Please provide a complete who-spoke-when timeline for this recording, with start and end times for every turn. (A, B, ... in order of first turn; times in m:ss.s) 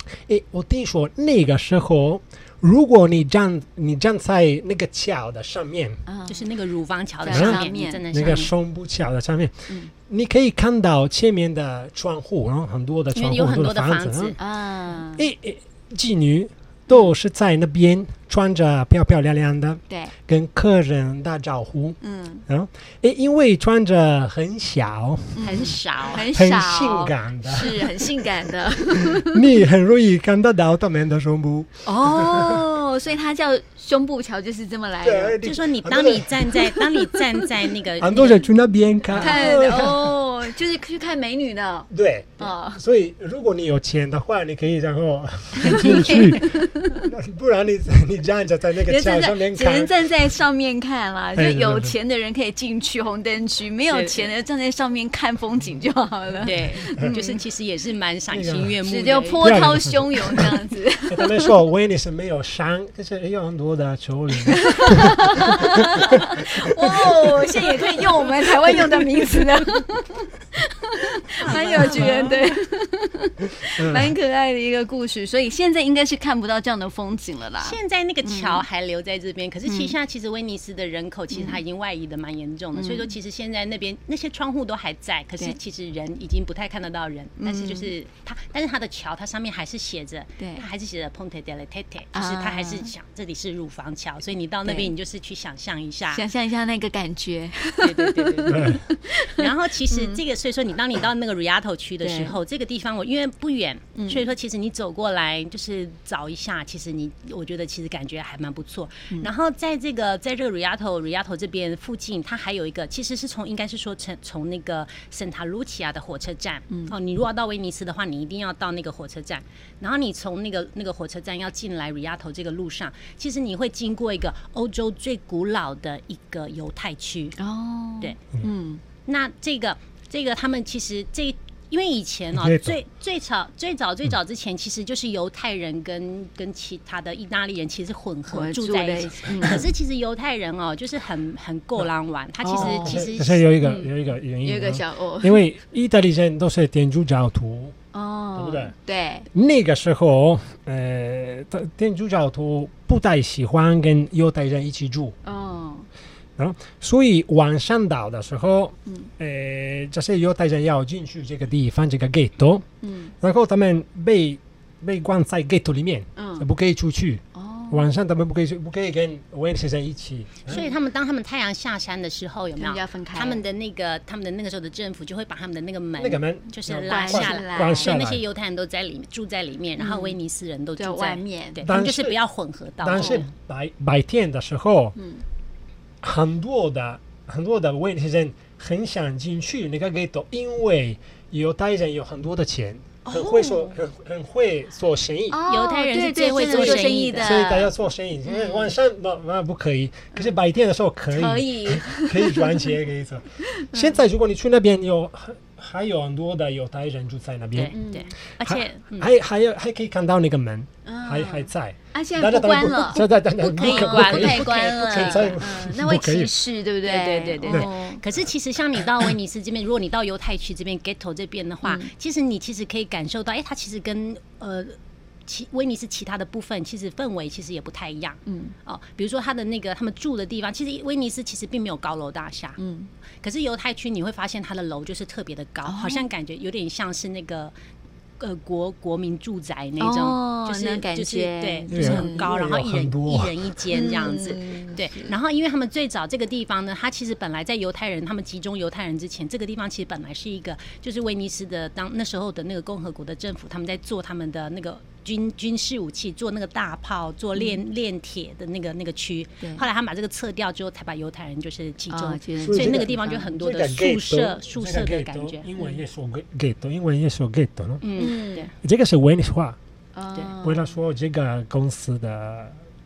0:00.3-0:06.0 A
0:06.1-0:06.5 B
0:06.3-0:08.5 C
0:07.2-0:08.4 B
0:07.3-0:14.4 A
0:13.1-0:14.4 C
0:14.4-0:15.2 B
0:15.1-0:25.5 A
0:22.0-0:22.4 B
0:25.4-0:29.4 B
0:25.4-0:26.3 C
0:26.3-0:32.6 A
0:31.8-0:35.4 B
0:35.0-0:37.0 A
0:35.4-0:38.5 C
0:38.0-0:40.1 A
0:39.1-0:39.9 C
0:39.1-0:42.8 B
0:41.9-0:50.0 A
0:45.6-0:47.1 B
0:48.8-0:57.4 B
0:51.3-0:52.0 A
0:53.9-0:54.3 C
0:56.4-0:59.6 C
0:56.4-0:57.2 A
0:58.3-0:58.8 A
0:58.8-1:01.3 B
0:59.4-1:05.6 A
1:04.5-1:18.6 B
1:06.5-1:07.4 A
1:11.3-1:12.6 C
1:13.8-1:14.2 A
1:17.6-1:36.2 C
1:19.6-1:19.9 B
1:21.3-1:21.6 B
1:22.7-1:23.1 B
1:27.4-1:27.9 B
1:30.4-1:30.6 B
1:32.1-1:32.9 B
1:34.6-1:34.9 B
1:36.1-1:40.2 B
1:37.8-1:38.7 C
1:38.5-1:38.8 A
1:39.3-2:07.4 C
1:42.0-1:42.3 B
1:44.0-1:44.3 B
1:56.7-1:56.9 B
2:07.4-2:08.8 B
2:09.0-2:23.5 C
2:12.3-2:12.8 A
2:18.3-2:19.7 B
2:22.4-2:23.0 B
2:22.5-2:27.7 A
2:23.6-2:25.4 B
2:27.9-2:29.3 B
2:28.4-2:28.7 A
2:29.3-2:35.1 A
2:35.2-2:35.9 B
2:36.4-2:42.6 A
2:38.8-2:39.1 B
2:42.8-2:43.1 B
2:43.2-2:50.6 A
2:46.2-2:46.5 B
2:47.3-2:47.9 B
2:50.5-3:03.3 C
2:52.6-2:53.4 B
2:56.0-2:58.2 A
2:56.9-2:57.9 B
2:59.8-3:00.2 B
3:00.8-3:01.7 B
3:01.6-3:02.2 A
3:02.8-3:05.0 A
3:02.9-3:03.3 B
3:05.0-3:05.2 B
3:06.0-3:15.4 A
3:13.0-3:13.7 B
3:15.3-3:17.7 B
3:15.5-3:17.3 C
3:16.4-3:27.8 A
3:18.2-3:18.7 B
3:21.1-3:22.5 B
3:23.5-3:24.0 B
3:27.5-3:29.1 C
3:27.7-3:28.1 B
3:28.4-3:36.3 A
3:30.8-3:38.0 B
3:33.5-3:35.4 C
3:36.8-3:52.6 C
3:41.6-3:41.9 B
3:48.2-3:48.5 B
3:52.6-3:52.9 B
3:53.2-3:57.5 C
3:55.6-3:56.0 B
3:58.2-4:25.5 C
3:59.8-4:02.3 B
4:01.7-4:03.7 A
4:03.7-4:05.1 B
4:17.3-4:17.6 B
4:21.9-4:23.4 B
4:22.4-4:27.9 A
4:27.8-4:28.5 C
4:28.0-4:28.5 B
4:28.6-4:29.6 A
4:29.9-4:30.8 B
4:30.4-4:32.6 A